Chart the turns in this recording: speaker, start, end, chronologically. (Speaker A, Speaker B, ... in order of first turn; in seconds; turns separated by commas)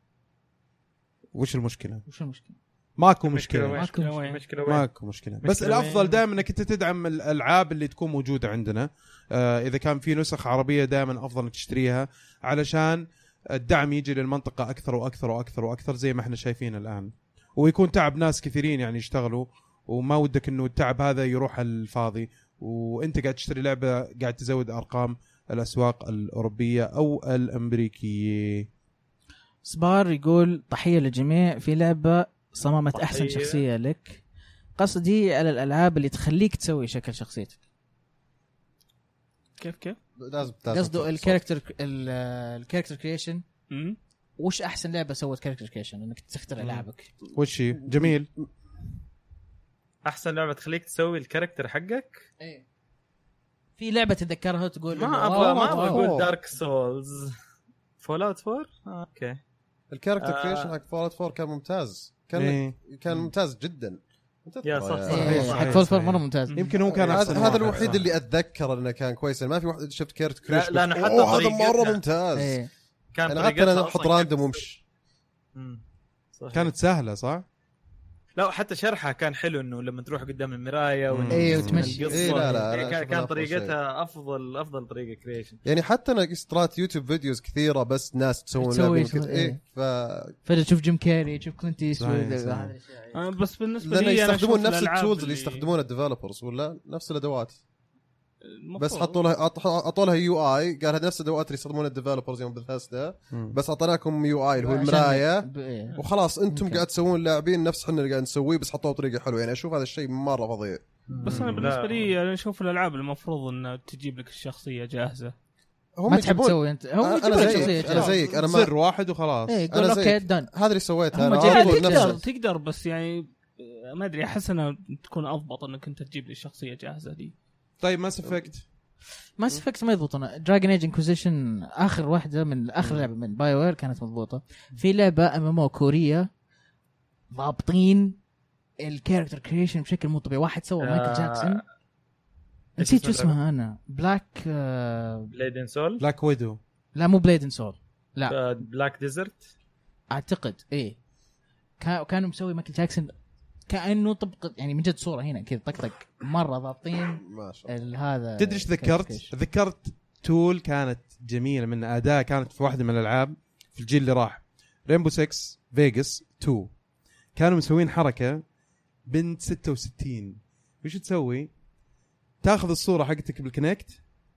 Speaker A: 1.3-2.0, Speaker B: 2.0-2.5, Speaker A: 3.0-3.8, Speaker C: 3.2-4.9, Speaker B: 3.7-4.1, Speaker D: 3.9-4.4, Speaker A: 4.6-28.7, Speaker C: 5.4-6.2, Speaker B: 29.6-34.2, Speaker C: 32.9-33.6, Speaker B: 34.8-37.6, Speaker D: 39.6-39.9, Speaker B: 39.6-39.9, Speaker E: 40.2-41.4, Speaker B: 40.7-43.4, Speaker D: 43.7-44.0, Speaker B: 44.4-47.1, Speaker A: 46.6-48.3, Speaker E: 47.8-48.1, Speaker C: 50.0-52.2, Speaker B: 53.8-56.1, Speaker C: 54.9-57.3, Speaker E: 55.7-56.3, Speaker C: 58.0-59.4, Speaker E: 59.9-65.6, Speaker C: 60.2-60.7, Speaker A: 62.4-62.8, Speaker C: 64.6-65.8, Speaker B: 65.1-66.6, Speaker A: 65.1-68.1, Speaker C: 66.5-67.7, Speaker E: 66.9-72.6, Speaker C: 70.5-72.0, Speaker B: 72.4-72.7, Speaker C: 73.1-74.6, Speaker E: 73.3-74.8, Speaker C: 75.5-75.8, Speaker C: 76.3-76.7, Speaker A: 76.5-77.4, Speaker C: 78.3-85.6, Speaker A: 81.1-81.9, Speaker B: 81.3-82.6, Speaker E: 82.0-83.7, Speaker D: 82.1-82.5, Speaker E: 85.6-90.3, Speaker B: 88.5-89.6, Speaker B: 90.4-93.3, Speaker A: 92.0-92.7, Speaker D: 93.1-95.6, Speaker E: 93.8-97.6, Speaker D: 98.5-99.2, Speaker E: 98.8-110.8, Speaker B: 104.6-106.0, Speaker B: 106.5-106.8, Speaker C: 111.1-112.1, Speaker D: 111.2-115.3, Speaker A: 111.3-111.7, Speaker E: 116.0-118.7, Speaker B: 116.1-118.1, Speaker A: 117.3-119.7, Speaker B: 119.5-120.5, Speaker E: 119.7-122.2, Speaker B: 121.1-122.2, Speaker D: 121.3-127.3, Speaker A: 127.8-128.6, Speaker B: 129.4-136.3, Speaker B: 137.3-138.2, Speaker B: 138.8-141.6, Speaker C: 140.8-141.6, Speaker C: 142.8-143.3, Speaker B: 142.8-145.3, Speaker C: 145.3-146.0, Speaker A: 146.0-146.6, Speaker B: 146.9-148.4, Speaker C: 148.3-149.5, Speaker B: 150.1-151.0, Speaker B: 151.8-153.1, Speaker B: 153.7-159.3, Speaker E: 157.2-157.7, Speaker A: 158.4-166.7, Speaker A: 167.3-168.4, Speaker A: 169.1-171.5, Speaker A: 172.4-174.0